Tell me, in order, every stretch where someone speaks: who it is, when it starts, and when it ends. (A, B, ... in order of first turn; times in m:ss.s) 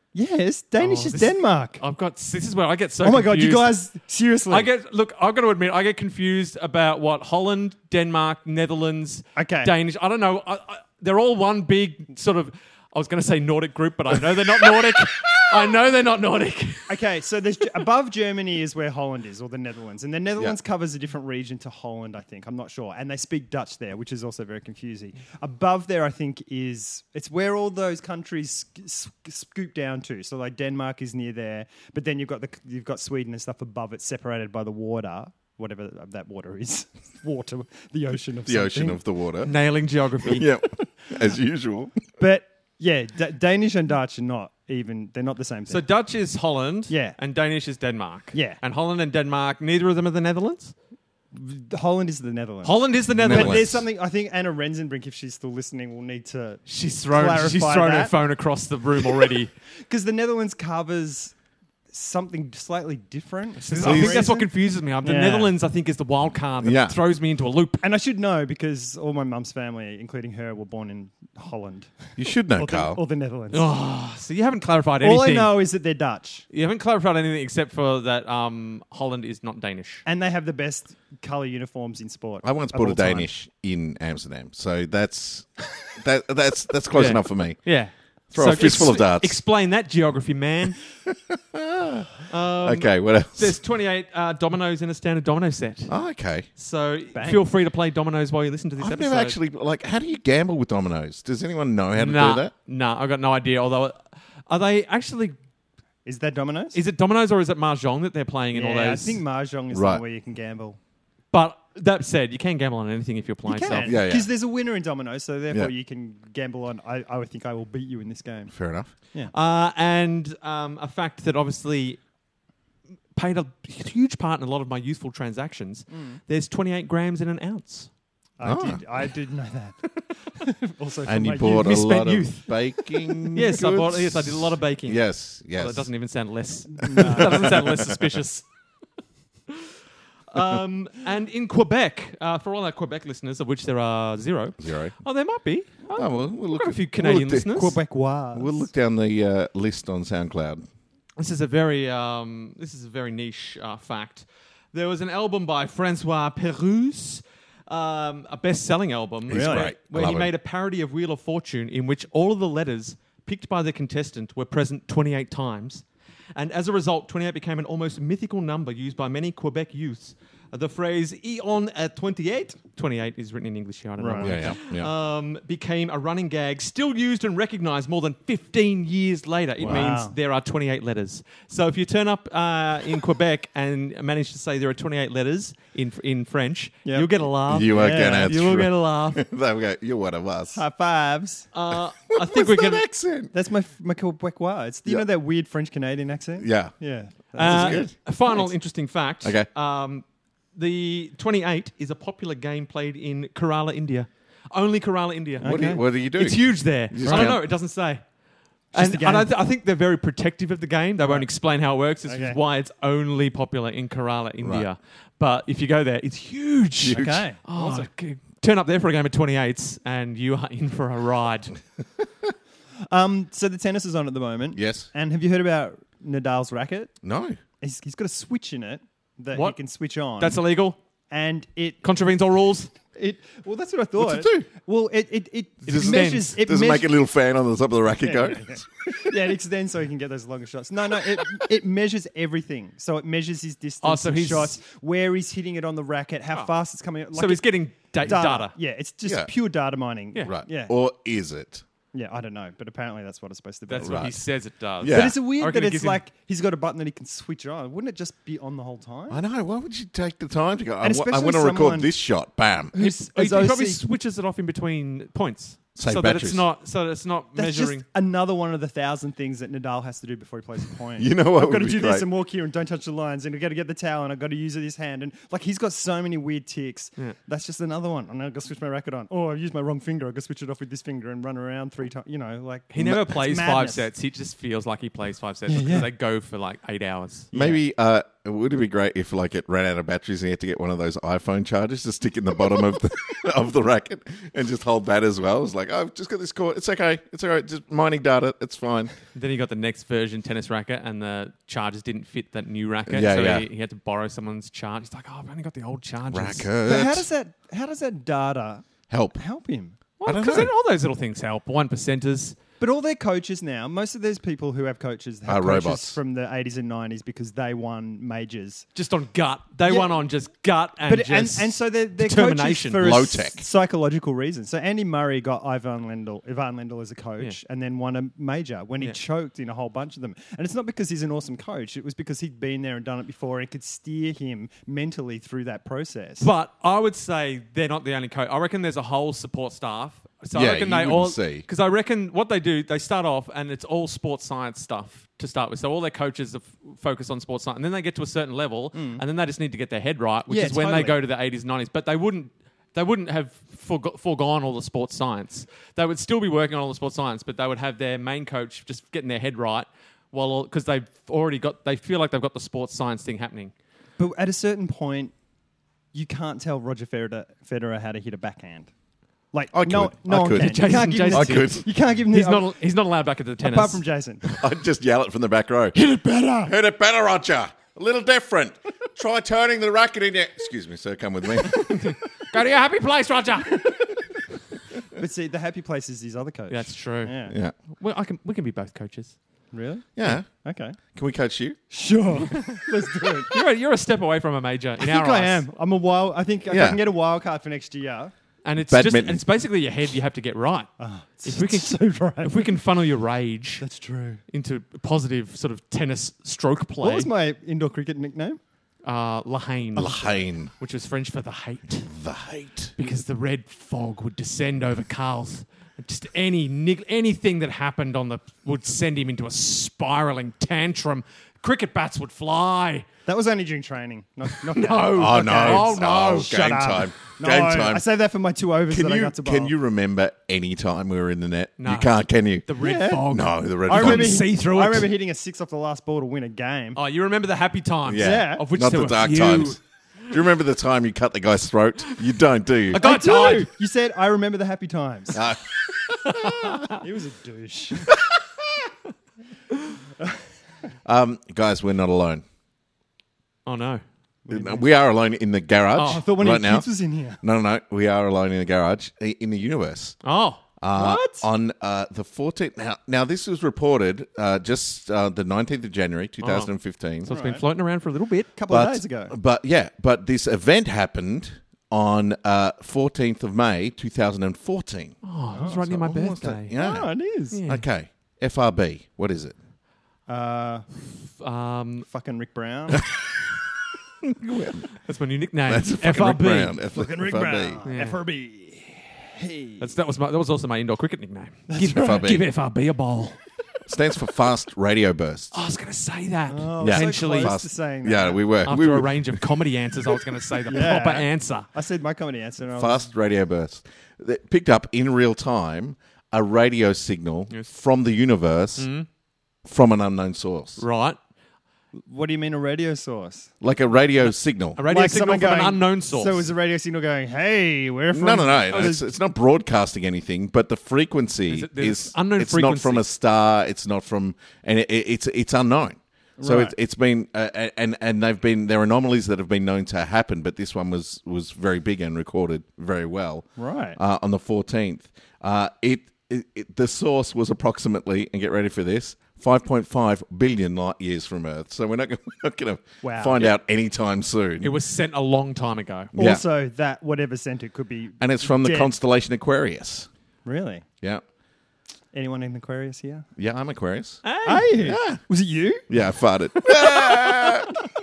0:00.1-0:01.8 A
0:00.8-0:03.8 B
0:03.0-0:04.7 A
0:04.5-0:17.0 B
0:09.4-0:09.7 A
0:16.9-0:39.0 A
0:38.5-0:39.5 C
0:39.4-0:40.5 B
0:40.2-0:42.0 C
0:42.2-0:45.8 A
0:45.7-0:50.8 B
0:46.9-0:47.2 A
0:48.3-0:48.6 A
0:51.3-0:58.2 A
0:52.6-0:53.7 B
0:53.1-0:53.8 C
0:56.7-0:59.5 B
0:59.0-1:01.4 A
1:01.9-1:05.5 A
1:03.6-1:07.8 B
1:03.8-1:04.3 C
1:06.6-1:07.0 C
1:07.8-1:13.7 A
1:12.2-1:13.0 C
1:13.5-1:15.6 B
1:15.0-1:16.5 A
1:16.5-1:20.0 B
1:20.1-1:23.3 A
1:22.4-1:27.7 C
1:26.9-1:30.8 B
1:28.3-1:29.4 C
1:31.1-1:32.1 C
1:32.3-1:35.9 B
1:32.6-1:33.6 C
1:35.9-1:36.5 C
1:36.6-1:39.4 B
1:37.1-1:37.4 A
1:38.8-1:42.5 C
1:42.0-1:45.4 B
1:46.0-1:46.8 A
1:46.7-1:49.2 B
1:48.5-1:50.8 A
1:49.7-1:50.0 C
1:51.3-1:54.0 B
1:53.5-1:58.5 A
1:53.7-1:54.3 C
1:58.5-1:58.9 C
1:59.3-2:02.0 B
2:03.2-2:07.9 B
2:05.9-2:06.2 A
2:08.4-2:11.8 A
2:08.4-2:08.8 C
2:11.0-2:15.9 C
2:11.5-2:18.5 B
2:16.8-2:17.6 A
2:17.0-2:18.0 C
2:20.3-2:27.8 B
2:24.6-2:25.0 C
2:26.0-2:27.6 C
2:27.5-2:28.7 A
2:28.3-2:30.6 C
2:31.2-3:09.2 B
2:39.3-2:40.3 C
2:39.3-2:39.7 A
2:54.0-2:54.4 A
2:54.2-2:54.9 C
2:59.6-3:00.1 A
2:59.6-2:59.9 C
3:07.5-3:10.6 C
3:07.7-3:08.3 A
3:10.6-3:11.5 A
3:11.5-3:12.8 B
3:12.1-3:13.3 C
3:13.3-3:18.5 A
3:16.4-3:16.8 C
3:17.3-3:17.9 C
3:17.4-3:28.1 B
3:19.2-3:19.5 C
3:25.4-3:25.8 A
3:25.4-3:27.4 C
3:27.0-3:27.4 A
3:28.7-3:41.6 B
3:28.7-3:29.4 A
3:31.0-3:31.3 A
3:32.0-3:32.4 A
3:36.8-3:37.2 C
3:36.9-3:37.9 A
3:42.9-3:46.9 A
3:44.5-3:44.9 C
3:47.0-3:47.4 C
3:47.6-3:50.4 A
3:50.2-3:50.8 B
3:51.1-3:51.8 A
3:51.8-3:52.7 B
3:52.9-3:56.9 A
3:54.0-3:54.5 C
3:55.6-3:56.4 B
3:55.7-3:59.2 C
3:58.0-4:10.7 A
4:03.8-4:04.6 B
4:07.1-4:08.6 B
4:09.0-4:09.3 C
4:10.3-4:11.6 C
4:11.9-4:14.1 A
4:13.7-4:16.0 B
4:13.8-4:14.2 C
4:14.8-4:15.2 C
4:14.8-4:19.2 A
4:19.1-4:22.7 C
4:20.8-4:21.9 A
4:22.7-4:23.8 A
4:22.8-4:27.8 B
4:25.8-4:26.4 C
4:27.4-4:43.8 A
4:31.0-4:32.1 C
4:42.7-4:47.3 B
4:45.5-4:45.9 A
4:47.3-4:47.6 A
4:47.3-4:58.9 C
4:59.2-5:06.5 B
5:02.9-5:03.4 C
5:06.1-5:07.1 C
5:06.6-5:09.8 A
5:08.9-5:09.2 C
5:10.0-5:12.4 B
5:10.0-5:10.5 C
5:12.6-5:18.7 A
5:15.3-5:16.0 C
5:18.8-5:22.9 B
5:19.7-5:20.0 A
5:20.9-5:36.3 A
5:22.8-5:23.4 C
5:36.2-6:03.5 B
5:40.4-5:41.4 C
5:48.7-5:49.0 A
5:50.3-5:51.0 A
6:04.0-6:05.1 A
6:05.9-6:08.7 A
6:09.3-6:12.6 A
6:09.5-6:11.7 C
6:10.3-6:13.8 B
6:13.4-6:14.2 A
6:14.2-6:21.9 C
6:15.8-6:16.5 A
6:21.5-6:23.8 B
6:24.9-6:27.4 A
6:26.5-6:27.2 B
6:27.3-6:27.5 C
6:27.8-6:29.2 B
6:29.5-6:30.8 A
6:30.0-6:30.3 C
6:30.9-6:31.6 C
6:31.7-6:33.4 A
6:32.3-6:32.6 B
6:33.3-6:35.4 B
6:34.8-6:38.1 A
6:36.5-6:36.8 C
6:38.4-6:40.7 B
6:38.6-6:39.2 C
6:40.8-6:42.6 A
6:41.2-6:43.6 B
6:43.6-6:44.2 A
6:44.3-6:47.1 B
6:46.8-6:48.4 A
6:48.8-6:51.9 B
6:49.8-6:50.5 C
6:51.9-6:52.8 C
6:52.8-7:02.9 B
7:03.1-7:09.5 A
7:04.4-7:06.3 B
7:05.0-7:07.8 C
7:08.7-7:12.5 C
7:11.6-7:14.9 B
7:12.6-7:16.8 A
7:13.1-7:14.2 C
7:16.8-7:19.6 B
7:17.9-7:19.6 C
7:18.0-7:18.5 A
7:20.1-7:22.8 C
7:22.7-7:23.5 B
7:22.8-7:25.2 A
7:25.1-7:26.6 C
7:26.0-7:26.8 B
7:26.7-7:27.9 A
7:30.8-7:32.2 C
7:33.5-7:33.8 B
7:34.3-7:34.6 A
7:34.3-7:36.7 C
7:35.8-7:36.0 B
7:35.8-7:37.2 A
7:37.2-7:40.0 C
7:40.0-7:40.4 B
7:40.6-7:47.1 C
7:40.7-7:41.3 A
7:46.2-7:48.3 B
7:47.1-7:47.4 A
7:48.4-7:49.1 A
7:48.5-7:56.9 C
7:55.0-7:56.6 B
7:55.4-7:55.6 A
7:56.5-7:57.4 A
7:57.3-7:57.6 B
7:57.5-7:59.4 C
8:00.1-8:00.7 A
8:00.8-8:01.9 B
8:01.8-8:03.0 A
8:04.0-8:04.7 C
8:04.7-8:06.6 B
8:05.5-8:07.6 C
8:06.7-8:09.7 A
8:07.6-8:08.0 B
8:09.6-8:13.2 B
8:11.5-8:12.1 A
8:11.7-8:12.3 C
8:13.7-8:15.4 C
8:15.3-8:17.3 B
8:16.3-8:18.2 A
8:16.6-8:19.2 C
8:18.4-8:21.5 B
8:20.5-8:22.9 A
8:22.5-8:28.7 C
8:28.6-8:28.9 B
8:29.4-8:30.6 C
8:30.6-8:31.0 B
8:31.8-8:33.3 A
8:33.4-8:34.6 C
8:34.6-8:36.3 B
8:34.7-8:38.8 A
8:37.9-9:04.5 C
8:41.3-8:42.8 B
8:46.2-8:46.6 A
8:53.4-8:53.8 A
9:02.8-9:03.4 A
9:04.4-9:05.9 B
9:05.9-9:06.2 C
9:06.0-9:08.7 A
9:08.0-9:09.9 C
9:10.2-9:10.6 A
9:11.9-9:13.1 A
9:13.2-9:14.0 C
9:14.0-9:14.6 B
9:14.2-9:15.7 A
9:14.6-9:15.0 C
9:15.7-9:17.6 C
9:16.4-9:17.5 A